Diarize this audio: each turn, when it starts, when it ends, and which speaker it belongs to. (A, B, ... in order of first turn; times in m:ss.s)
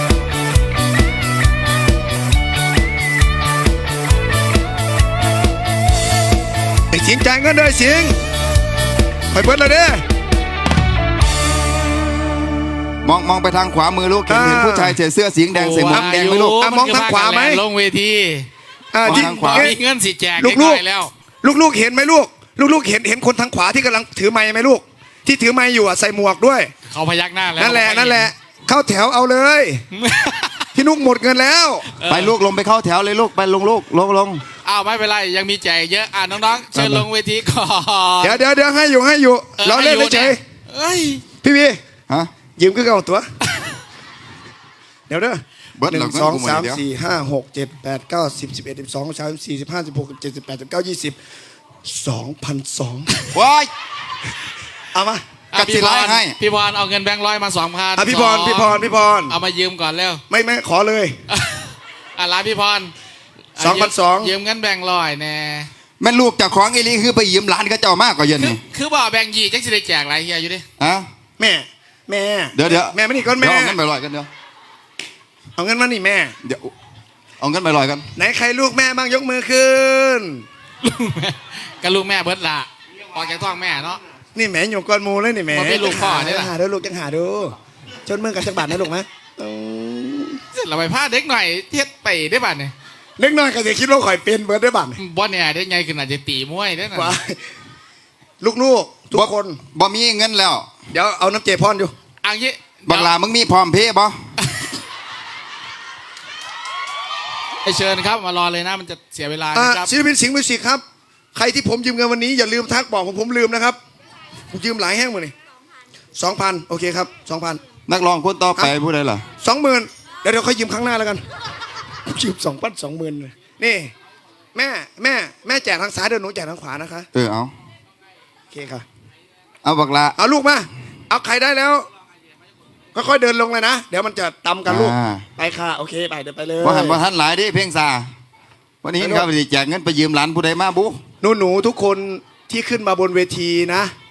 0:06.9-0:08.2 A
0:09.3-0:10.0 A
0:13.0-0:16.6 B
0:14.3-0:14.9 A
0:15.5-0:18.5 C
0:15.8-0:17.6 A
0:18.9-0:19.7 A
0:19.0-0:19.7 B
0:19.0-0:21.1 C
0:20.4-0:20.8 A
0:21.4-0:26.7 A
0:26.9-0:28.3 C
0:27.6-0:29.8 A
0:29.9-0:30.7 C
0:30.7-0:31.8 A
0:32.0-0:32.3 C
0:32.0-0:34.4 B
0:34.6-0:38.4 C
0:36.7-0:37.0 B
0:38.2-0:40.4 A
0:39.6-0:41.2 C
0:41.4-0:41.8 A
0:42.6-0:43.3 A
0:45.1-0:51.2 A
0:45.8-0:46.8 B
0:51.8-0:53.1 A
0:53.3-0:53.7 B
0:54.9-0:55.2 A
0:55.5-1:00.2 C
0:55.5-0:56.4 B
0:58.0-0:59.3 A
1:00.3-1:01.2 A
1:01.3-1:02.9 C
1:03.6-1:05.7 C
1:03.6-1:04.3 A
1:06.0-1:08.6 B
1:08.4-1:10.6 C
1:10.8-1:11.1 B
1:11.4-1:13.8 A
1:12.5-1:14.3 B
1:15.6-1:16.3 A
1:16.4-1:16.7 B
1:17.4-1:18.1 B
1:18.2-1:20.4 A
1:20.8-1:24.0 C
1:24.3-1:27.5 A
1:25.5-1:26.5 C
1:28.0-1:30.4 A
1:30.5-1:32.7 C
1:33.2-1:35.0 A
1:35.0-1:37.2 C
1:36.9-1:37.4 A
1:38.4-1:39.6 A
1:39.1-1:40.7 B
1:40.9-1:41.9 A
1:42.2-1:43.1 C
1:42.8-1:44.2 B
1:47.6-1:49.9 C
1:49.5-1:50.8 A
1:51.3-1:53.8 A
1:54.5-1:55.3 A
1:56.2-1:57.6 A
1:57.9-1:59.2 B
1:59.4-2:01.2 A
2:02.0-2:03.9 A
2:04.5-2:07.1 A
2:07.1-2:07.5 B
2:08.5-2:08.8 A
2:09.6-2:10.2 B
2:10.2-2:11.9 A
2:12.9-2:17.0 A
2:14.6-2:15.2 B
2:16.6-2:18.1 B
2:18.8-2:21.0 B
2:19.0-2:19.3 A
2:21.2-2:23.9 A